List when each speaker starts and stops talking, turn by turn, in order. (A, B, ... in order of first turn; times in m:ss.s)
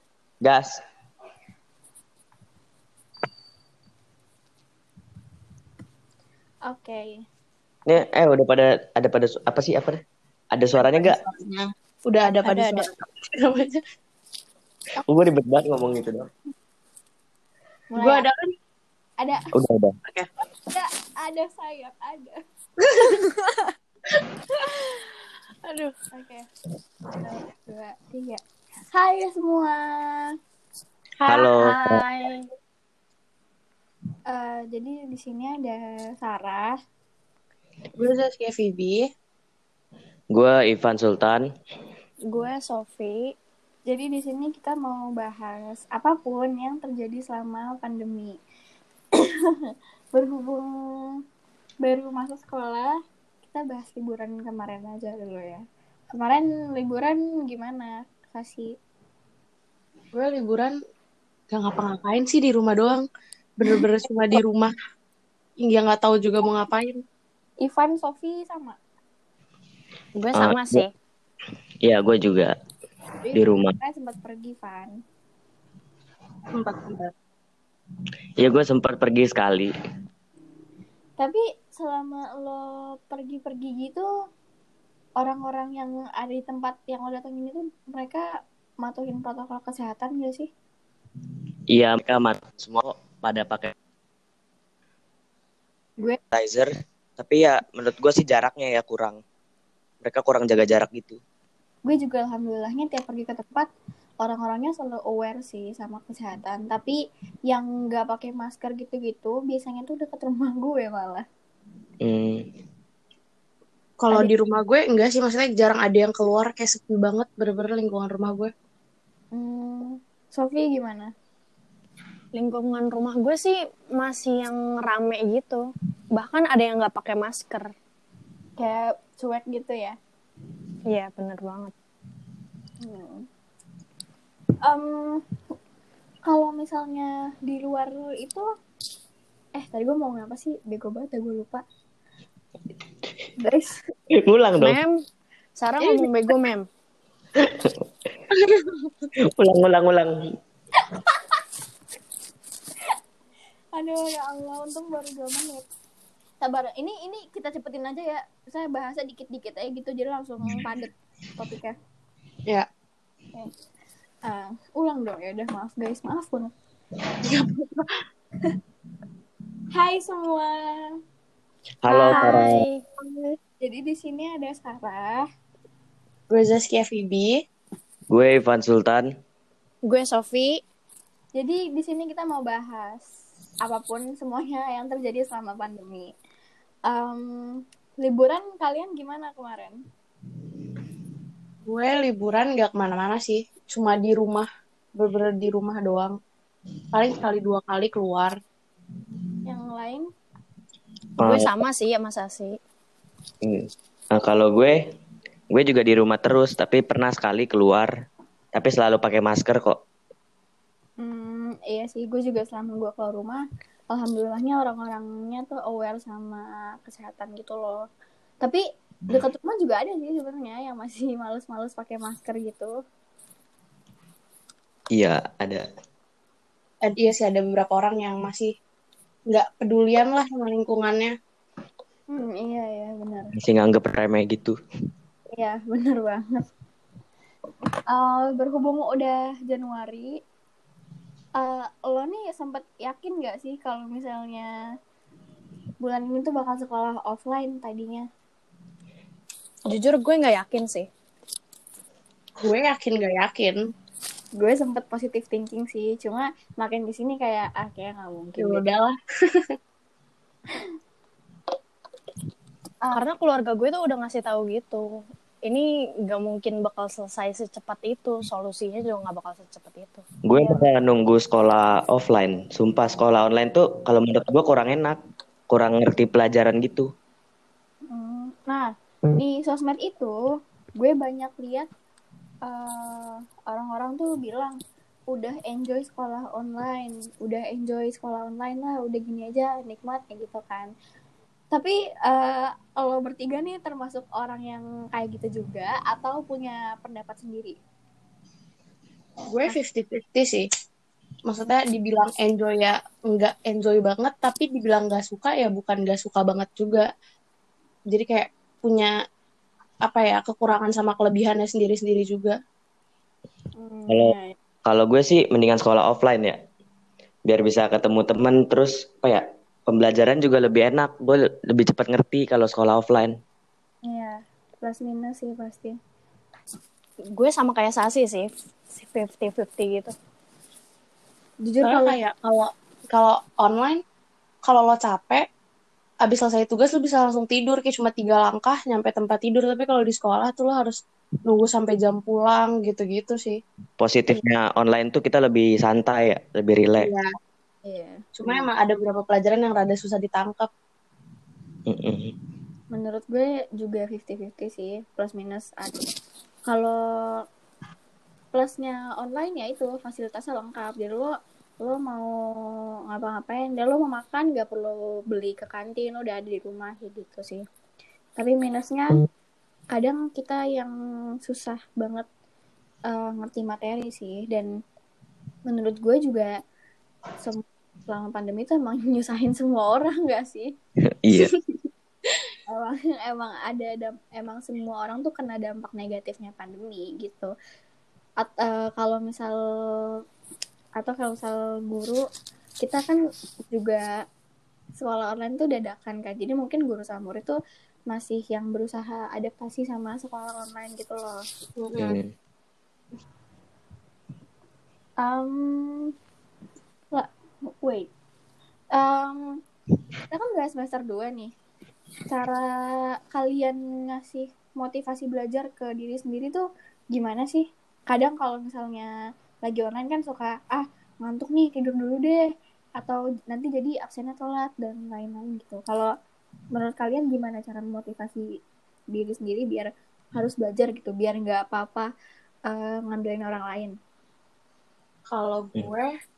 0:00.4-0:00.8 A
0:06.7-0:07.2 B
0:07.9-0:10.0 A
0:10.5-0:11.2 A
0:10.8-0:13.8 C
0:12.3-0:12.9 D
0:15.1-0:16.3 A
0:17.9-0:18.2 B
0:18.0-0:18.5 C
0:19.2-0:19.5 B
0:19.5-0:19.9 A
0:20.7-0:22.4 B
0:22.9-0:23.7 B
0:26.1-0:26.5 B
0:27.2-0:30.3 B
0:31.2-0:32.0 C
0:31.3-0:32.0 A
0:31.6-0:32.4 D
0:34.3-0:36.8 B
0:38.0-0:39.1 C
0:40.3-0:41.5 A
0:42.3-0:43.3 D
0:43.9-0:48.4 B
0:50.1-0:51.2 B
0:51.8-0:52.9 B
0:53.4-0:55.6 B
0:56.1-0:58.7 B
1:00.1-1:00.8 C
1:01.5-1:03.1 C
1:03.6-1:04.7 C
1:05.6-1:07.0 C
1:07.6-1:08.8 B
1:10.2-1:10.9 D
1:10.3-1:10.8 A
1:11.8-1:12.5 A
1:13.2-1:14.9 B
1:13.3-1:13.8 A
1:16.6-1:17.1 C
1:18.4-1:19.7 A
1:21.2-1:24.1 B
1:25.2-1:28.3 B
1:28.8-1:30.5 B
1:31.7-1:33.7 A
1:36.3-1:39.2 A
1:40.0-1:41.2 A
1:41.9-1:43.7 B
1:44.2-1:47.0 B
1:47.5-1:51.2 B
1:52.0-1:52.4 A
1:54.0-1:58.5 C
1:59.3-2:01.1 B
2:02.3-2:07.7 D
2:08.6-2:10.0 B
2:10.9-2:11.7 D
2:12.8-2:13.2 B
2:14.6-2:15.2 B
2:16.3-2:18.5 B
2:19.6-2:21.6 B
2:23.4-2:23.9 B
2:24.2-2:24.8 A
2:24.6-2:25.0 D
2:25.6-2:26.7 D
2:25.8-2:26.1 B
2:27.4-2:27.7 A
2:29.4-2:30.2 A
2:33.7-2:35.6 B
2:36.4-2:41.8 B
2:44.3-2:46.5 B
2:47.2-2:47.9 C
2:49.7-2:50.8 B
2:51.8-2:52.6 A
2:51.9-2:52.8 D
2:53.6-2:55.3 B
2:56.3-2:57.4 C
2:58.1-2:59.1 A
2:59.8-3:00.6 D
3:01.4-3:03.0 B
3:03.6-3:06.1 B
3:06.9-3:07.5 B
3:08.0-3:09.8 B
3:11.7-3:16.2 C
3:16.9-3:18.4 C
3:19.4-3:20.1 B
3:21.2-3:21.5 A
3:21.2-3:22.6 D
3:23.4-3:24.8 A
3:25.5-3:27.9 A
3:28.5-3:29.8 A
3:31.0-3:37.8 B
3:38.4-3:42.7 B
3:44.9-3:45.6 A
3:46.8-3:48.5 C
3:49.3-3:51.1 C
3:52.1-3:53.3 B
3:53.4-3:54.6 A
3:55.3-3:56.4 B
3:57.9-4:00.1 B
4:01.4-4:04.5 B
4:05.8-4:08.1 B
4:09.7-4:10.9 D
4:12.4-4:13.6 C
4:14.4-4:18.6 B
4:18.4-4:19.5 C
4:22.9-4:30.0 D
4:30.2-4:35.0 A
4:30.4-4:30.6 B
4:35.5-4:36.9 A
4:37.9-4:40.2 B
4:40.8-4:41.7 B
4:42.5-4:44.6 B
4:45.1-4:50.7 B
4:51.5-4:57.6 B
4:59.3-5:00.4 C
5:01.3-5:06.9 C
5:07.9-5:08.9 C
5:09.9-5:12.4 C
5:13.6-5:14.4 B
5:13.9-5:14.2 A
5:14.7-5:16.4 A
5:17.3-5:23.1 A
5:23.8-5:25.7 B
5:27.1-5:30.0 D
5:31.4-5:32.0 B
5:31.6-5:33.8 C
5:34.4-5:35.2 C
5:36.0-5:43.4 C
5:43.8-5:46.9 A
5:46.8-5:47.1 C
5:47.6-5:48.5 B
5:48.2-5:50.5 C
5:51.7-5:52.1 A
5:52.7-5:55.8 B
5:56.5-5:56.8 B
5:58.3-6:01.1 B
6:01.6-6:07.4 B
6:08.2-6:09.0 B
6:09.7-6:10.7 B
6:11.2-6:12.1 B
6:12.9-6:14.5 B
6:15.5-6:16.3 B
6:17.2-6:20.5 B
6:21.0-6:21.3 A
6:22.5-6:27.3 B
6:28.2-6:30.0 B
6:30.8-6:32.0 B
6:32.6-6:33.0 B
6:33.5-6:33.8 B
6:34.8-6:37.4 B
6:37.9-6:41.2 B
6:41.6-6:42.0 C
6:41.8-6:42.1 A
6:45.0-6:45.9 B
6:47.6-6:47.9 B
6:48.8-6:49.2 B
6:50.1-6:51.3 B
6:52.1-6:52.5 B
6:53.1-6:58.9 B
6:59.4-7:02.2 B
7:02.8-7:05.9 B
7:06.5-7:08.3 B
7:08.9-7:11.9 B
7:12.5-7:13.7 B
7:15.1-7:15.9 C